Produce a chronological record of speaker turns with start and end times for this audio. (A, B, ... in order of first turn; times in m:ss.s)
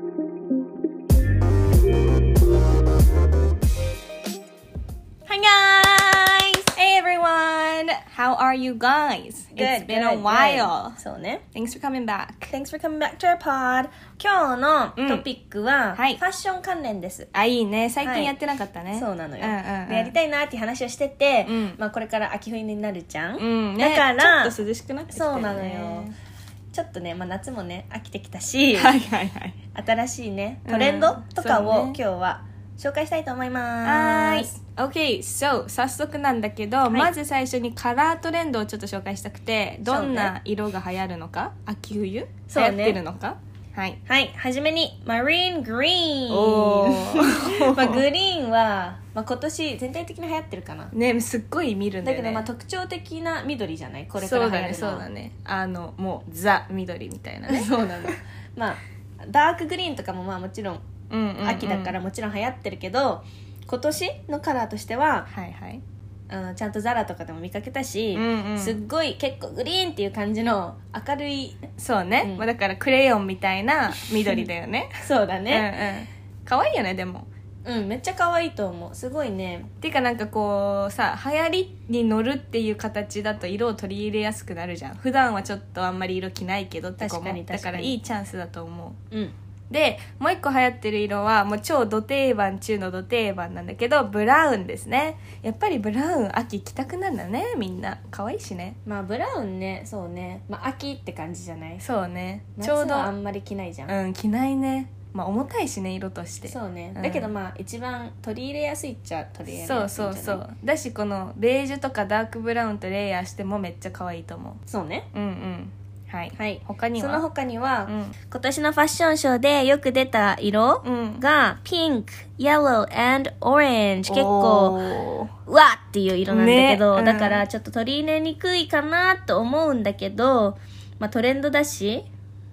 0:05.3-0:06.7 A
0:06.7-0:11.0 B
0:09.6-0:11.4 A
0:11.5-0:12.5 B
0:12.5-0:17.3 A
0:15.0-0:15.2 B
0:15.9-0:16.2 B
0:17.3-0:20.2 B
0:18.0-0:18.3 A
0:18.9-0:24.6 A
0:21.4-0:21.8 B
0:23.4-0:26.1 B
0:25.1-0:26.1 A
0:26.7-0:29.0 A
0:28.7-0:29.6 B
0:29.7-0:34.5 A
0:30.6-0:32.0 B
0:33.8-0:44.0 B
0:39.9-0:40.3 A
0:42.5-0:43.0 A
0:44.0-0:50.9 A
0:46.3-0:48.0 B
0:50.9-0:52.4 B
0:52.0-0:55.1 A
0:54.2-0:58.1 B
0:57.5-1:00.8 A
1:01.1-1:02.0 B
1:01.4-1:05.3 A
1:05.3-1:05.8 B
1:06.3-1:11.6 A
1:08.1-1:08.8 B
1:11.8-1:14.9 B
1:12.2-1:12.5 A
1:15.0-1:15.7 A
1:15.5-1:17.3 B
1:17.6-1:19.7 A
1:19.8-1:29.0 B
1:27.0-1:28.0 A
1:29.7-1:38.8 B
1:38.8-1:41.8 A
1:41.8-1:43.1 B
1:42.6-1:43.9 A
1:43.9-1:47.3 B
1:46.4-1:50.4 A
1:49.5-1:54.6 B
1:54.7-1:55.1 A
1:55.1-1:57.3 B
1:56.3-2:04.8 A
1:57.9-1:58.1 B
2:00.8-2:01.2 B
2:04.1-2:05.3 B
2:05.5-2:12.1 A
2:06.3-2:07.4 B